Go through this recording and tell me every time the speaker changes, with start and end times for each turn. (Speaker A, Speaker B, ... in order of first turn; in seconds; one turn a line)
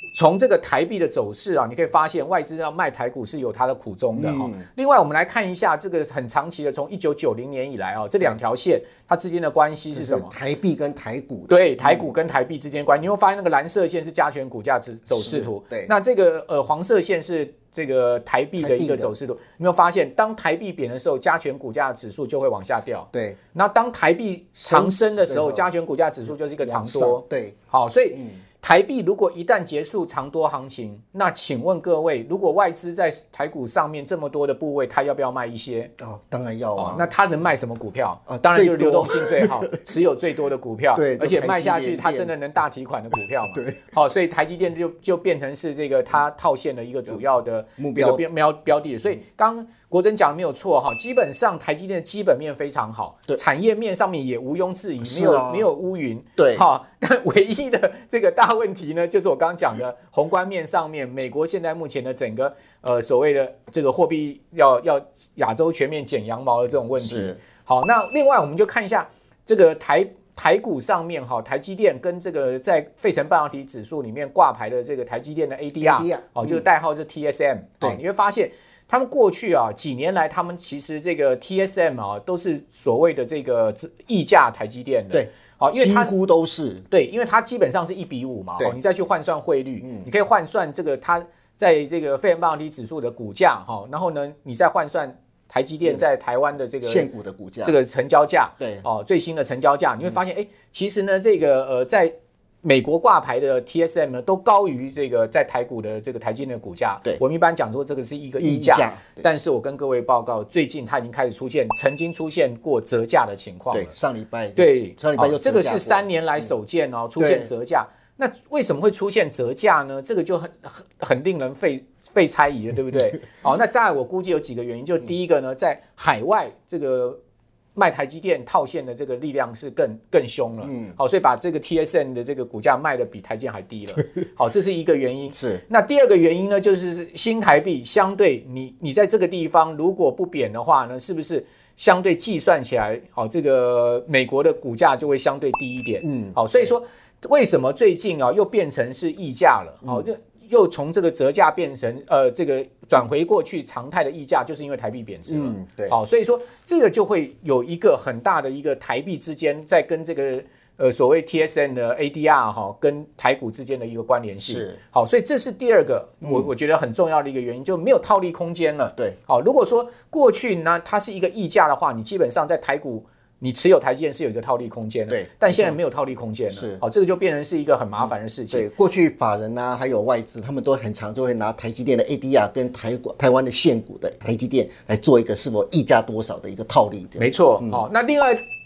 Speaker A: 0.1-10.3
Speaker B: 4.2-4.7
Speaker B: 9.9-12.1
Speaker A: 11.5-35.9
Speaker B: 15.1-15.9
Speaker B: 18.6-19.1
Speaker B: 23.1-23.4
Speaker B: 24.6-25.7
Speaker B: 26.3-27.6
Speaker B: 28.1-28.4
Speaker B: 36.0-37.1
Speaker A: 36.8-86.1
Speaker B: 38.3-39.8
Speaker B: 40.9-42.3
Speaker B: 43.5-43.9
Speaker B: 47.8-48.2
Speaker B: 55.0-55.7
Speaker B: 56.4-56.6
Speaker B: 67.0-67.4
Speaker B: 75.8-76.6
Speaker B: 85.1-86.9
Speaker A: 86.9-97.1
Speaker B: 89.8-90.1
Speaker B: 96.8-97.8
Speaker A: 97.6-113.9
Speaker B: 98.6-98.8
Speaker B: 108.4-109.2
Speaker B: 113.7-116.5
Speaker A: 114.6-127.2
Speaker B: 117.2-117.5
Speaker A: 127.8-178.7
Speaker B: 130.6-131.0
Speaker B: 135.3-135.6
Speaker B: 146.0-146.6
Speaker B: 155.3-156.0
Speaker B: 164.4-164.8
Speaker B: 166.2-166.5
Speaker B: 175.1-175.8
Speaker B: 176.5-176.8
Speaker B: 178.0-187.9
Speaker A: 187.2-188.4